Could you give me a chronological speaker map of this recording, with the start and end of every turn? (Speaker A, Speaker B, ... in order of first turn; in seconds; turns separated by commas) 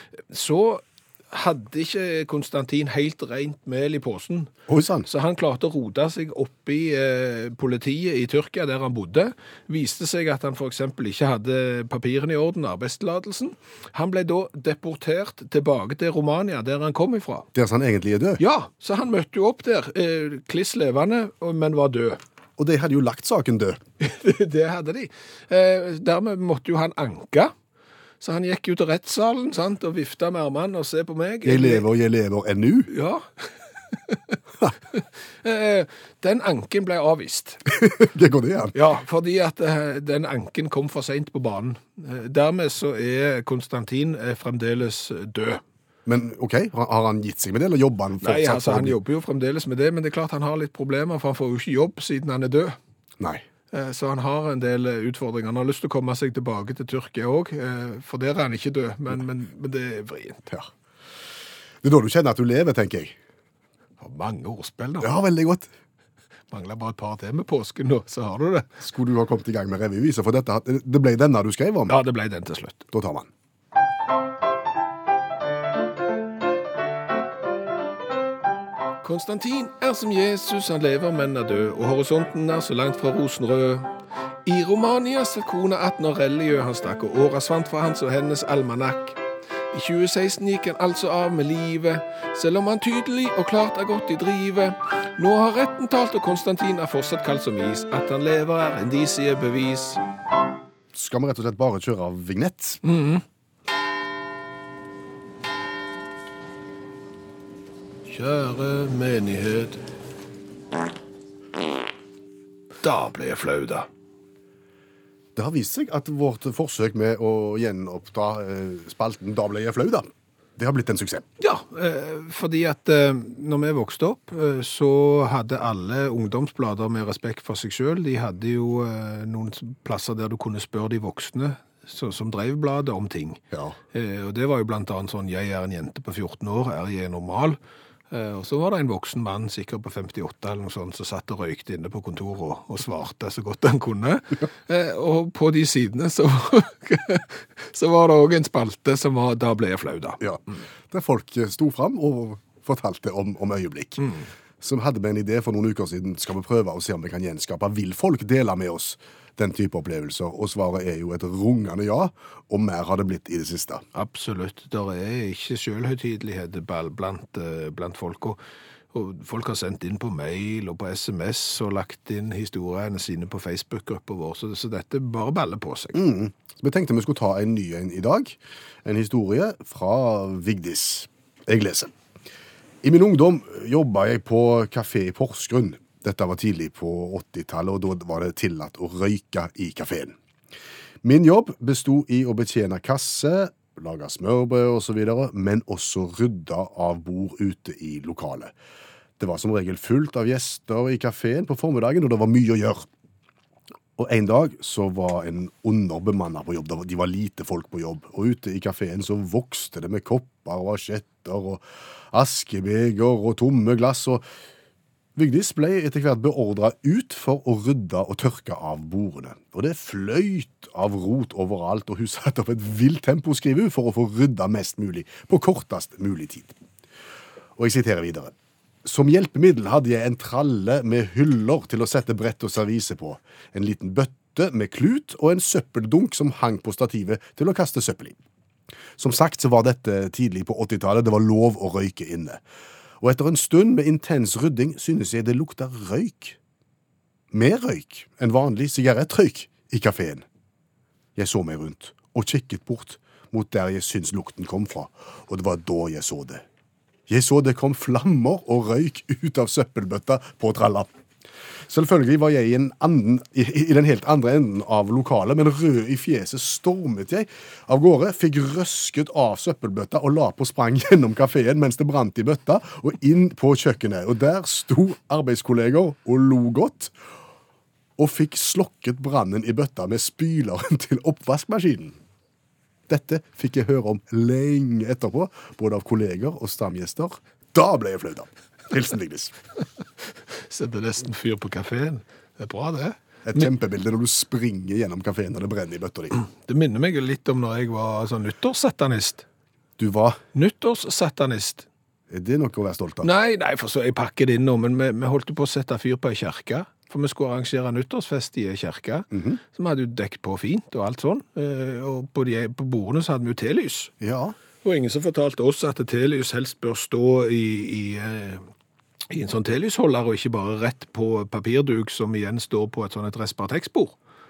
Speaker A: 0.3-4.5, Speaker B: 4.7-5.1, Speaker A: 5.0-17.5, Speaker B: 17.5-18.4, Speaker A: 18.4-22.2, Speaker B: 22.6-23.8, Speaker A: 24.0-27.5, Speaker A: 28.2-31.9, Speaker B: 31.4-32.9, Speaker A: 32.9-34.4, Speaker A: 34.9-37.6, Speaker B: 37.7-38.7, Speaker A: 38.7-45.6, Speaker B: 46.0-49.0, Speaker A: 48.2-52.8, Speaker B: 53.2-53.4, Speaker A: 53.7-60.5, Speaker B: 61.8-63.1, Speaker A: 64.0-65.1, Speaker B: 65.0-65.7, Speaker A: 66.5-68.7, Speaker B: 68.8-72.0, Speaker A: 71.9-72.9, Speaker B: 72.9-73.3, Speaker A: 79.0-83.9, Speaker A: 84.5-89.2, Speaker A: 89.7-100.0, Speaker B: 100.9-102.8, Speaker A: 102.8-103.2, Speaker A: 108.0-109.8, Speaker A: 112.8-113.9, Speaker B: 115.3-121.2, Speaker A: 121.4-133.4, Speaker A: 133.9-137.6, Speaker A: 138.1-150.6, Speaker B: 150.2-154.1, Speaker B: 154.6-163.8, Speaker A: 163.9-168.4, Speaker A: 168.9-176.0, Speaker B: 175.9-181.9, Speaker B: 182.8-190.1, Speaker B: 191.0-198.5, Speaker B: 199.2-202.8, Speaker B: 204.0-214.2, Speaker B: 215.2-226.6, Speaker B: 227.6-238.2, Speaker B: 239.0-242.4, Speaker B: 243.0-246.4, Speaker B: 247.3-250.2, Speaker B: 251.2-256.4, Speaker B: 257.1-260.9, Speaker B: 261.7-276.9, Speaker B: 278.0-282.0, Speaker B: 282.9-289.4, Speaker A: 290.4-293.5, Speaker B: 293.2-296.2, Speaker A: 296.2-299.2, Speaker B: 299.8-300.2, Speaker A: 300.3-301.7, Speaker B: 302.1-303.1, Speaker A: 303.0-313.9, Speaker B: 309.1-309.4, Speaker B: 314.0-314.3, Speaker A: 314.6-318.5, Speaker A: 319.1-323.9